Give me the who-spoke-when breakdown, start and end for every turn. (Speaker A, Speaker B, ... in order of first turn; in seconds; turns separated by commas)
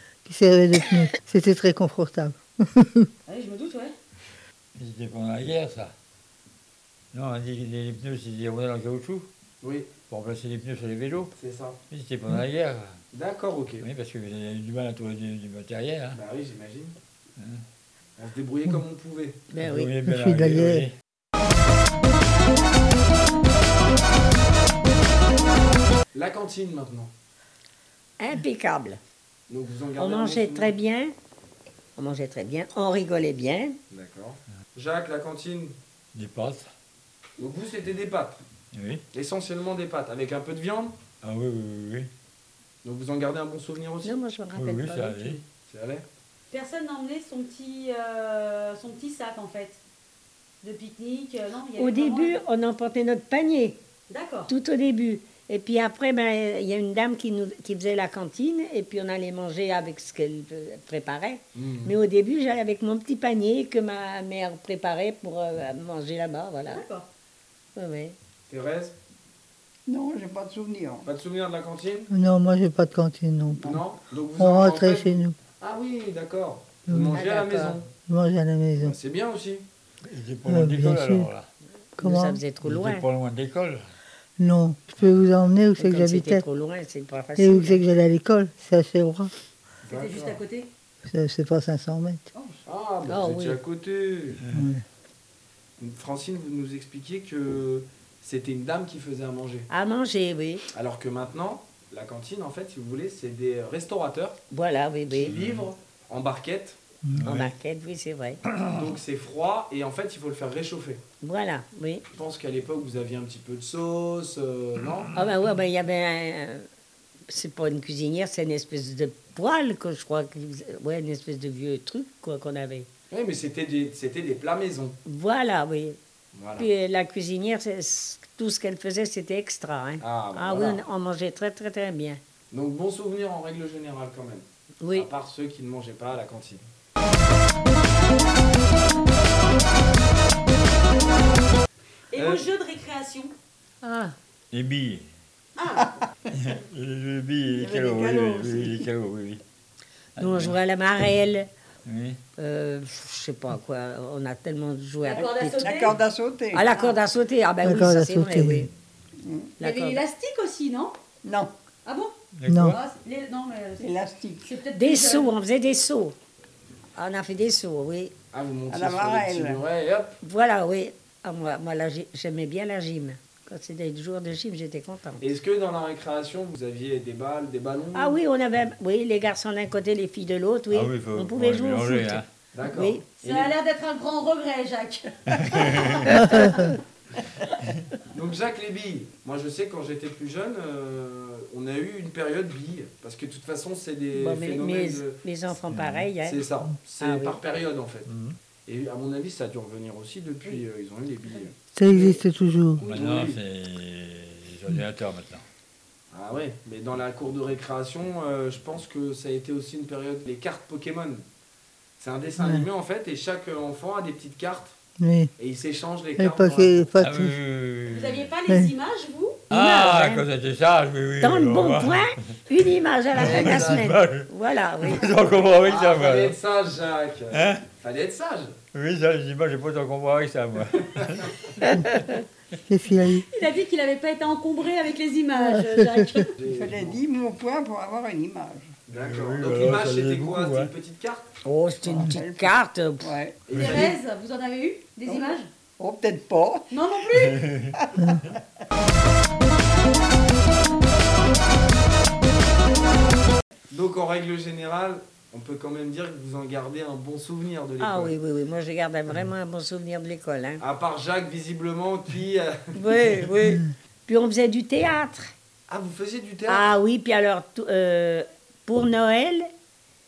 Speaker A: 0.2-3.1, Speaker B: 3.3-3.9, Speaker C: 4.8-5.9, Speaker C: 7.1-9.3, Speaker D: 9.6-9.9, Speaker C: 10.1-11.3, Speaker D: 11.3-11.8, Speaker C: 11.9-12.9, Speaker D: 13.1-13.8, Speaker C: 13.8-16.2, Speaker D: 16.1-16.9, Speaker C: 17.4-17.6, Speaker D: 18.2-19.4, Speaker E: 19.5-19.9, Speaker C: 19.6-20.9, Speaker A: 20.0-20.9, Speaker D: 26.1-27.1, Speaker E: 28.2-29.0, Speaker D: 29.5-30.7, Speaker E: 30.0-31.1, Speaker E: 31.9-33.8, Speaker D: 33.9-35.8, Speaker C: 36.1-36.7, Speaker D: 37.4-38.4, Speaker C: 38.7-39.0, Speaker D: 39.1-41.0, Speaker C: 41.2-42.1, Speaker D: 42.8-44.2, Speaker E: 44.0-45.4, Speaker C: 44.5-45.4, Speaker D: 45.6-46.0, Speaker B: 46.5-49.8, Speaker B: 50.6-52.4, Speaker E: 51.8-53.8, Speaker B: 54.1-54.5, Speaker E: 54.5-66.8, Speaker D: 61.5-61.9, Speaker B: 66.7-67.1, Speaker E: 67.7-68.1, Speaker D: 68.5-69.0, Speaker F: 69.9-71.1, Speaker D: 71.0-72.1, Speaker A: 72.1-73.8, Speaker D: 73.6-77.8, Speaker A: 74.3-75.3, Speaker A: 76.9-77.2, Speaker E: 77.1-77.8, Speaker A: 78.1-79.0, Speaker D: 78.8-79.7, Speaker C: 80.0-81.5, Speaker A: 80.5-81.3, Speaker A: 82.0-82.4, Speaker E: 82.0-83.0, Speaker C: 82.6-83.8, Speaker A: 84.4-86.4, Speaker E: 85.8-87.8, Speaker A: 87.4-89.3, Speaker B: 89.8-90.7, Speaker D: 89.9-90.4, Speaker A: 91.0-92.2, Speaker B: 92.3-92.6, Speaker D: 92.7-94.4, Speaker E: 93.1-93.6, Speaker C: 94.4-94.7, Speaker A: 94.5-94.8, Speaker D: 95.8-99.7, Speaker E: 99.7-100.6, Speaker D: 100.7-104.4, Speaker E: 104.5-105.3, Speaker D: 105.2-106.8, Speaker C: 105.3-105.6, Speaker C: 107.2-107.5, Speaker E: 107.2-108.4, Speaker C: 108.5-108.8, Speaker D: 108.7-111.0, Speaker E: 111.2-112.0, Speaker D: 112.1-115.1, Speaker E: 115.1-116.7, Speaker E: 117.3-122.9, Speaker D: 123.1-125.0, Speaker E: 125.0-126.0, Speaker D: 126.3-126.7, Speaker E: 126.6-132.2, Speaker D: 130.0-130.8, Speaker D: 132.5-136.6, Speaker E: 134.8-135.1, Speaker B: 142.1-143.3, Speaker D: 142.2-142.4, Speaker E: 143.8-144.1, Speaker C: 144.5-145.1, Speaker B: 145.6-145.9, Speaker C: 146.3-149.4, Speaker F: 147.5-148.9, Speaker C: 150.2-150.6, Speaker E: 150.2-151.5, Speaker C: 151.8-152.2, Speaker E: 152.4-155.9, Speaker B: 155.0-156.0, Speaker F: 155.2-156.7, Speaker E: 156.5-158.7, Speaker A: 157.6-158.7, Speaker F: 159.2-159.5, Speaker E: 159.6-160.0, Speaker B: 159.6-160.9, Speaker F: 161.2-161.5, Speaker B: 161.8-165.3, Speaker C: 162.3-162.8, Speaker A: 162.5-162.8, Speaker F: 163.8-164.5, Speaker E: 164.7-166.2, Speaker E: 166.9-168.1, Speaker D: 168.3-170.2, Speaker F: 168.7-169.6, Speaker E: 170.2-175.2, Speaker D: 175.2-178.2, Speaker E: 177.9-183.0, Speaker C: 180.7-182.3, Speaker D: 182.5-183.5, Speaker B: 183.2-186.5, Speaker C: 185.3-186.3, Speaker E: 186.1-186.6, Speaker A: 186.1-186.7, Speaker D: 188.1-195.2, Speaker E: 194.1-196.4, Speaker C: 195.7-196.1, Speaker D: 196.2-198.1, Speaker E: 197.0-197.4, Speaker C: 198.1-198.4, Speaker D: 198.7-201.5, Speaker A: 201.7-202.8, Speaker C: 202.8-205.4, Speaker B: 202.8-203.2, Speaker D: 202.9-203.4, Speaker D: 206.1-211.2, Speaker D: 212.0-214.8, Speaker A: 212.4-212.7, Speaker A: 215.0-215.3, Speaker D: 215.4-216.9, Speaker A: 216.2-217.4, Speaker C: 217.0-218.3, Speaker B: 217.9-219.4, Speaker A: 218.5-218.7, Speaker E: 219.5-220.2, Speaker C: 219.5-222.1, Speaker E: 221.2-225.1, Speaker C: 223.1-224.3, Speaker D: 223.2-223.9, Speaker C: 224.8-226.4, Speaker D: 225.6-228.6, Speaker C: 227.3-227.6, Speaker C: 228.7-231.3, Speaker D: 230.9-231.3, Speaker E: 231.6-232.2, Speaker A: 232.7-233.3, Speaker B: 233.1-236.3, Speaker A: 235.3-236.3, Speaker D: 236.4-237.0, Speaker F: 236.5-238.7, Speaker D: 238.9-241.3, Speaker C: 238.9-240.7, Speaker E: 241.4-243.1, Speaker F: 241.8-243.4, Speaker D: 243.5-243.9, Speaker B: 243.5-245.5, Speaker C: 243.6-243.9, Speaker F: 245.0-246.7, Speaker B: 246.7-247.5, Speaker C: 247.1-248.4, Speaker D: 253.7-258.1, Speaker E: 257.8-260.6, Speaker D: 260.6-262.7, Speaker E: 262.7-265.3, Speaker D: 265.7-266.7, Speaker E: 266.5-269.5